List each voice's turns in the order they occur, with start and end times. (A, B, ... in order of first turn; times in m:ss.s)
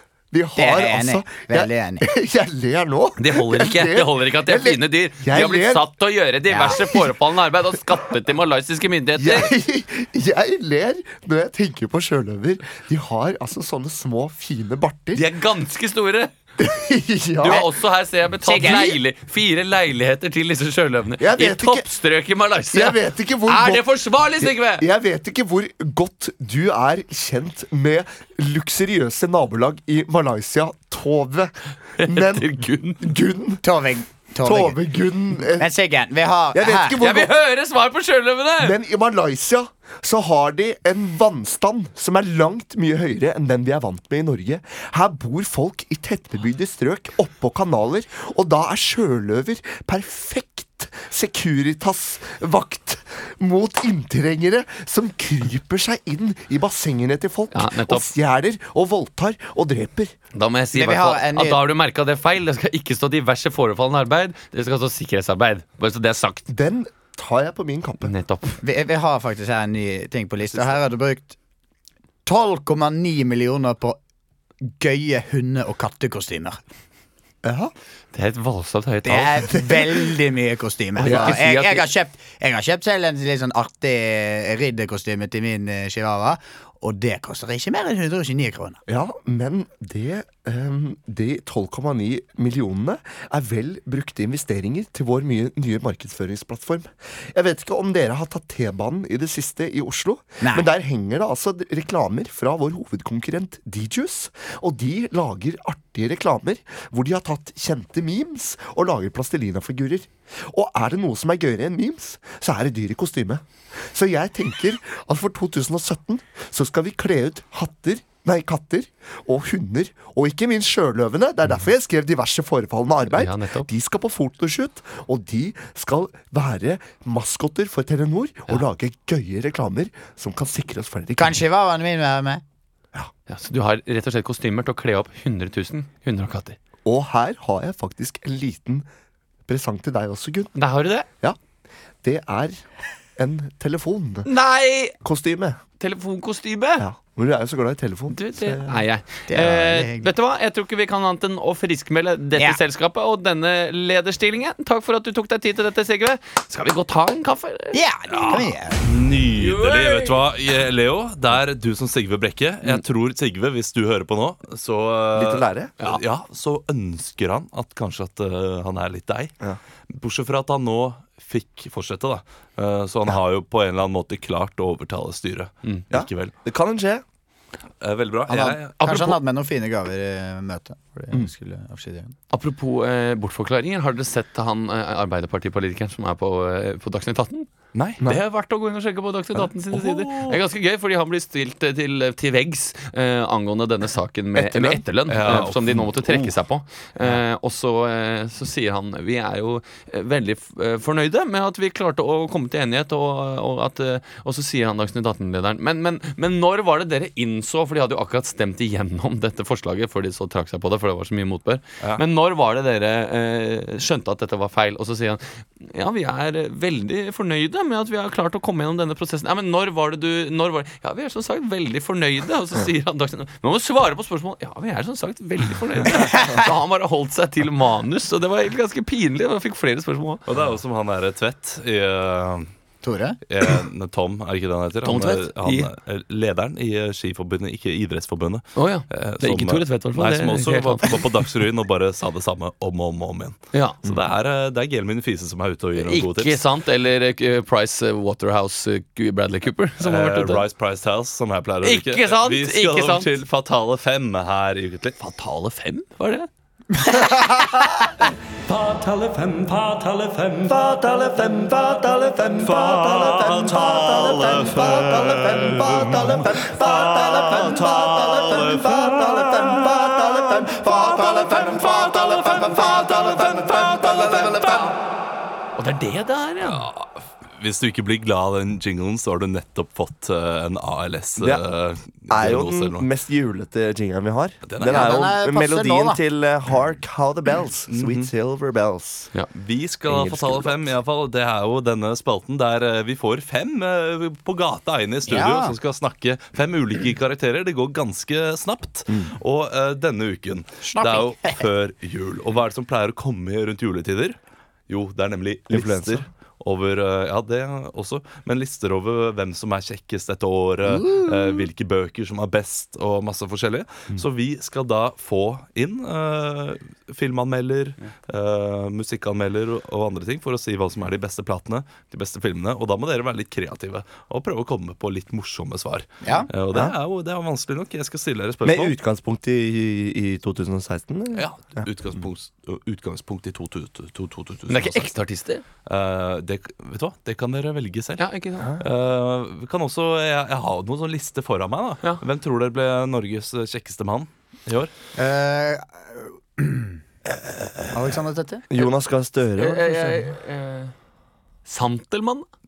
0:00.3-0:05.9 A
0:00.6-0:02.1 B
0:03.2-0:09.5 C
0:06.5-0:07.0 B
0:09.2-0:15.3 A
0:15.1-0:16.3 C
0:16.6-0:17.7 A
0:17.4-0:24.9 C
0:18.4-0:19.0 B
0:21.2-0:21.9 A
0:22.7-0:23.9 A
0:24.4-0:33.6 A
0:32.0-0:33.1 C
0:33.6-0:34.8 B
0:34.4-0:35.7 A
0:35.6-0:37.0 B
0:36.5-0:37.4 A
0:37.0-0:38.8 C
0:38.6-1:00.1 A
0:57.5-0:58.1 C
1:00.3-1:06.4 C
1:00.7-1:01.7 B
1:06.5-1:08.1 A
1:08.0-1:08.6 C
1:08.6-1:11.4 B
1:12.3-1:14.0 B
1:14.7-1:16.6 B
1:17.4-1:17.7 A
1:18.1-1:19.6 C
1:19.0-1:28.8 B
1:21.0-1:21.9 C
1:21.0-1:21.5 A
1:28.9-2:11.4 A
1:40.4-1:40.7 B
2:03.1-2:03.7 C
2:11.2-2:12.4 B
2:13.3-2:16.6 C
2:16.8-2:18.9 A
2:19.5-2:20.5 A
2:20.6-2:21.1 C
2:22.0-2:24.3 A
2:24.3-2:25.0 C
2:25.0-2:25.6 A
2:25.8-2:26.9 C
2:26.8-2:28.8 A
2:28.1-2:38.4 C
2:29.3-2:30.1 B
2:37.7-2:38.8 B
2:38.1-2:49.3 D
2:39.4-2:40.2 C
2:45.2-2:45.7 A
2:49.9-2:56.3 D
2:55.9-2:57.0 A
2:57.8-2:59.2 D
2:58.3-3:02.1 B
2:58.8-2:59.1 C
3:02.3-3:07.5 C
3:07.7-3:08.0 D
3:08.0-3:50.2 C
3:09.7-3:10.4 D
3:14.4-3:14.8 A
3:15.1-3:16.3 D
3:50.3-3:52.5 D
3:52.8-3:53.2 B
3:53.3-4:06.4 D
3:54.8-3:55.7 C
3:58.6-4:01.0 C
4:03.5-4:03.8 C
4:05.8-4:10.5 C
4:09.8-4:15.0 D
4:11.6-4:13.1 C
4:15.0-4:16.3 C
4:16.7-4:18.1 B
4:18.5-4:24.2 E
4:20.5-4:34.7 A
4:23.2-4:25.9 D
4:25.6-4:26.9 E
4:27.0-4:28.8 D
4:28.7-4:29.7 E
4:32.3-4:33.0 E
4:35.6-4:36.7 C
4:36.4-4:42.8 D
4:41.2-4:41.4 A
4:42.1-4:49.1 A
4:44.4-4:45.0 D
4:44.6-4:46.0 B
4:47.7-4:48.1 D
4:49.3-5:04.2 D
4:49.9-4:50.6 A
4:55.1-4:55.6 B
4:58.9-4:59.2 A
5:00.6-5:01.4 B
5:04.7-5:28.8 D
5:05.5-5:06.1 A
5:26.0-5:26.3 B
5:28.4-5:31.7 A
5:31.1-5:34.9 D
5:34.5-5:35.4 C
5:35.7-5:38.0 D
5:38.0-5:38.5 C
5:38.6-5:44.7 D
5:45.0-5:46.8 B
5:47.7-5:48.4 B
5:48.5-5:49.8 A
5:49.4-5:50.7 C
5:51.5-5:52.2 C